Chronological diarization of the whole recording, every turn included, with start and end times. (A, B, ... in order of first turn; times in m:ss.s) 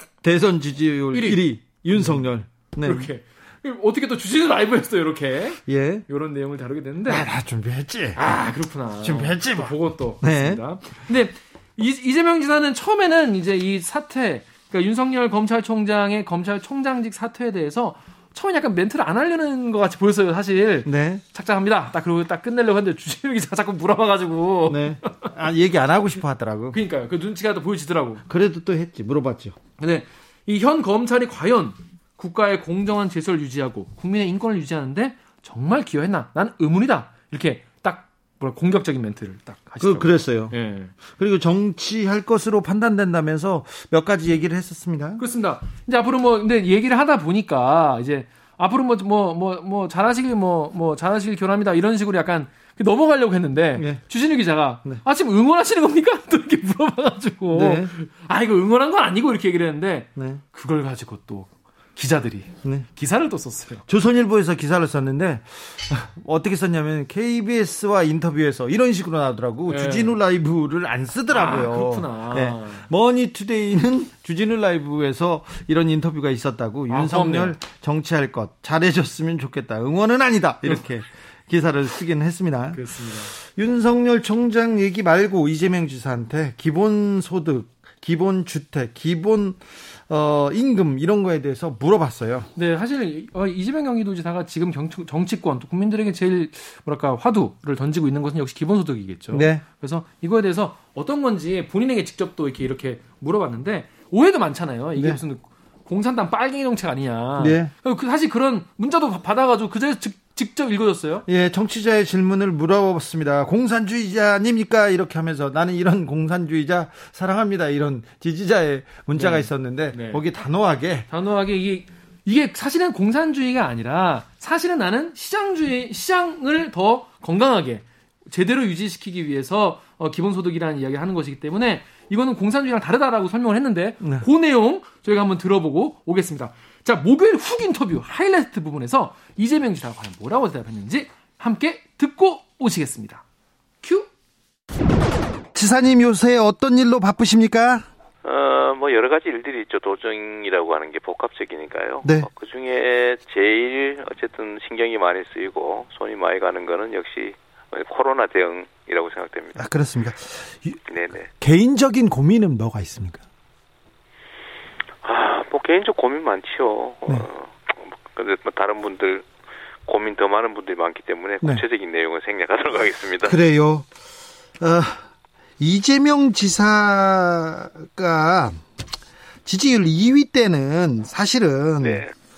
0:00.2-0:03.1 A
0:01.1-0:02.2 B
0:02.8-0:07.3 B
0:05.7-0:06.0 A
0:07.1-0:08.2 A
0:08.2-0:25.3 B
0:09.0-0:10.6 A
0:20.9-0:21.2 A
0:24.7-0:26.8 A
0:26.7-0:28.2 B
0:28.3-0:29.6 A
0:29.8-0:40.9 B
0:39.8-0:40.6 A
0:41.1-0:45.2 A
0:45.2-1:03.8 B
0:57.5-0:57.9 A
1:00.2-1:00.4 A
1:03.9-1:22.8 A
1:09.7-1:10.2 B
1:11.3-1:12.9 B
1:16.9-1:17.6 B
1:22.7-1:23.4 B
1:23.4-1:32.5 A
1:32.6-1:51.3 B
1:39.3-1:39.6 A
1:47.4-1:47.7 A
1:51.3-2:01.1 A
1:59.2-2:00.2 B
2:01.1-2:23.2 B
2:23.8-2:24.1 B
2:25.5-2:27.8 A
2:28.2-2:39.7 C
2:32.0-2:32.3 A
2:39.6-2:40.8 A
2:40.9-2:41.3 C
2:41.4-2:43.2 A
2:45.0-2:49.2 C
2:49.9-2:53.4 C
2:53.2-2:53.9 A
2:54.6-2:55.0 A
2:55.6-2:58.6 A
2:59.4-3:02.0 A
3:01.8-3:02.1 C